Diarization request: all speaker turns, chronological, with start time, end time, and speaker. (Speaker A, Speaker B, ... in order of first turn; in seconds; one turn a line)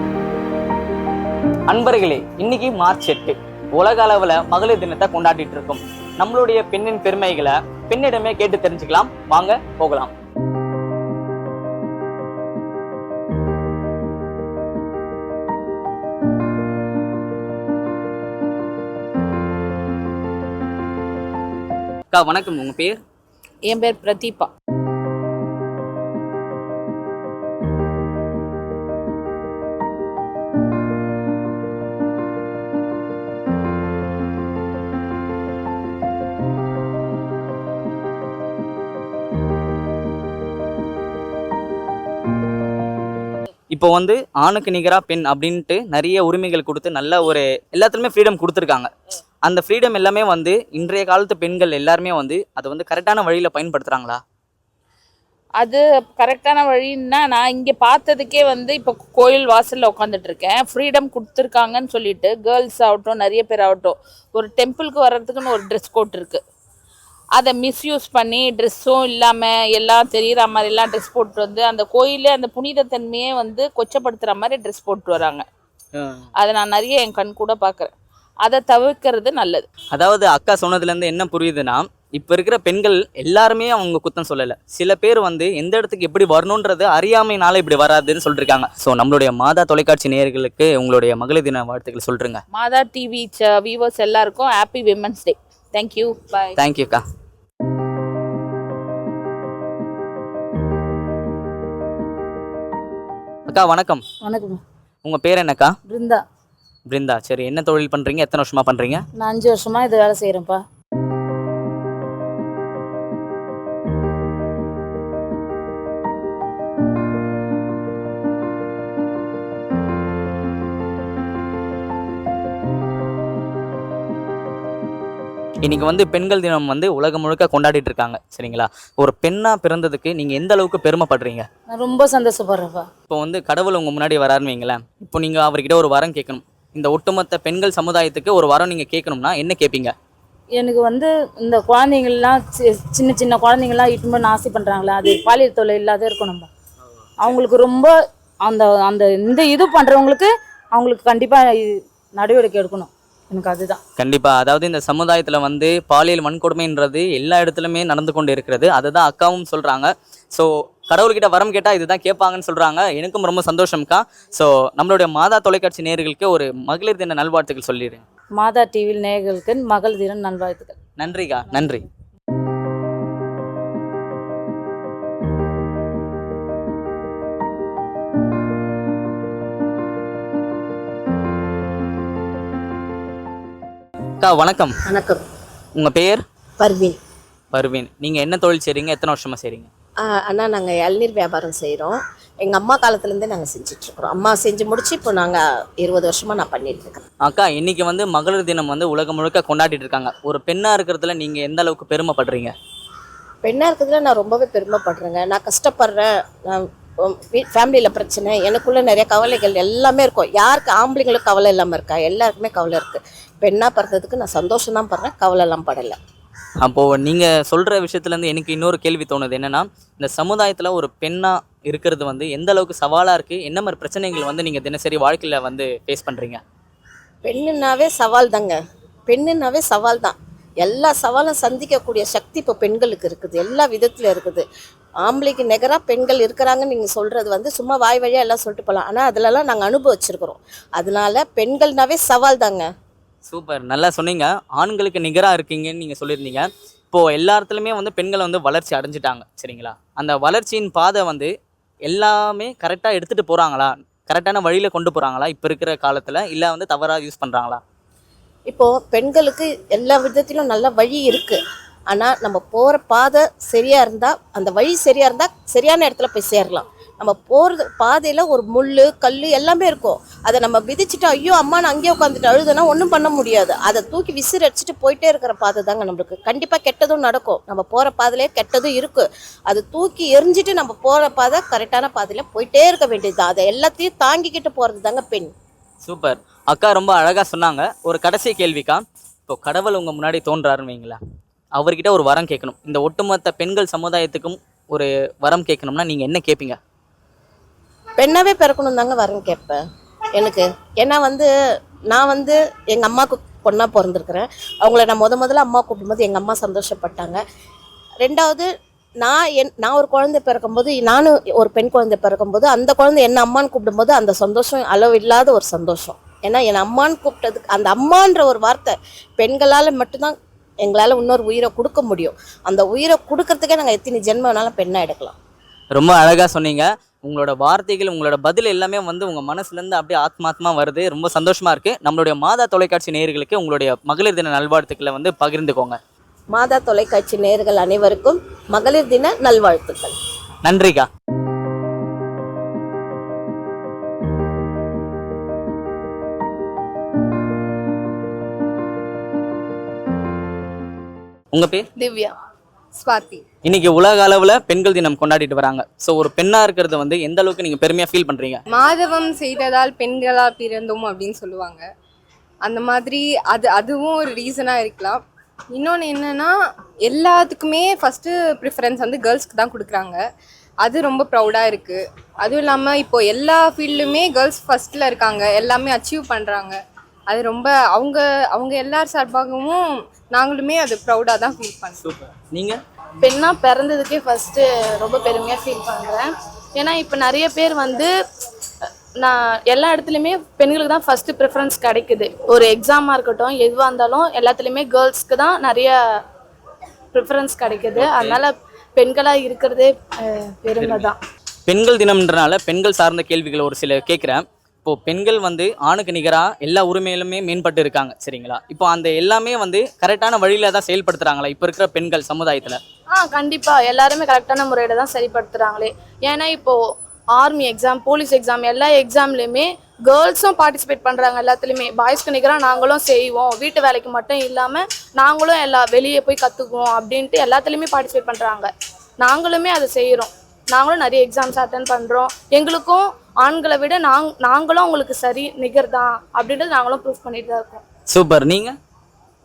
Speaker A: 1.7-10.1
Speaker A: 22.1-23.0
Speaker B: 23.6-24.5
Speaker A: 43.7-48.9
Speaker A: 49.4-54.2
Speaker B: 55.6-66.4
Speaker B: 67.3-75.4
Speaker A: 75.9-76.2
Speaker B: 76.4-77.9
Speaker B: 78.4-79.7
Speaker A: 79.9-92.4
Speaker B: 92.5-96.5
Speaker A: 96.5-97.0
Speaker A: 103.5-104.0
Speaker C: 104.2-104.6
Speaker A: 105.0-105.7
Speaker C: 105.9-106.2
Speaker A: 106.9-109.0
Speaker C: 109.2-110.6
Speaker A: 125.6-131.4
Speaker C: 131.7-132.9
Speaker A: 133.1-139.9
Speaker C: 140.6-146.5
Speaker C: 147.2-147.9
Speaker C: 148.4-153.8
Speaker A: 154.0-168.0
Speaker C: 168.4-170.8
Speaker A: 171.0-171.8
Speaker A: 184.2-184.8
Speaker D: 184.9-185.2
Speaker A: 185.7-186.2
Speaker D: 186.6-186.9
Speaker A: 187.5-189.7
Speaker D: 190.1-197.0
Speaker A: 197.2-202.5
Speaker D: 203.4-215.9
Speaker A: 216.6-226.4
Speaker D: 227.2-228.6
Speaker D: 229.1-234.4
Speaker D: 235.0-242.7
Speaker A: 243.3-251.3
Speaker A: 251.8-257.6
Speaker D: 258.5-261.4
Speaker D: 261.9-285.3
Speaker A: 285.8-291.0
Speaker A: 291.6-296.6
Speaker D: 298.0-299.6
Speaker D: 300.1-301.3
Speaker D: 301.9-307.2
Speaker D: 308.0-308.5
Speaker D: 309.0-325.1
Speaker A: 325.7-335.8
Speaker D: 336.3-339.9
Speaker A: 340.4-340.9
Speaker A: 351.3-351.6
Speaker E: 351.8-352.1
Speaker F: 352.8-353.2
Speaker A: 353.4-358.4
Speaker F: 358.6-361.6
Speaker F: 362.5-365.0
Speaker F: 365.6-366.3
Speaker F: 366.9-369.9
Speaker F: 370.6-376.5
Speaker F: 377.1-379.6
Speaker F: 380.1-381.7
Speaker A: 381.8-382.6
Speaker E: 383.0-387.9
Speaker E: 389.0-395.8
Speaker E: 396.9-401.0
Speaker A: 397.8-398.2
Speaker A: 400.6-400.9
Speaker A: 401.5-412.6
Speaker E: 412.9-428.5
Speaker E: 429.0-437.6
Speaker A: 437.9-438.5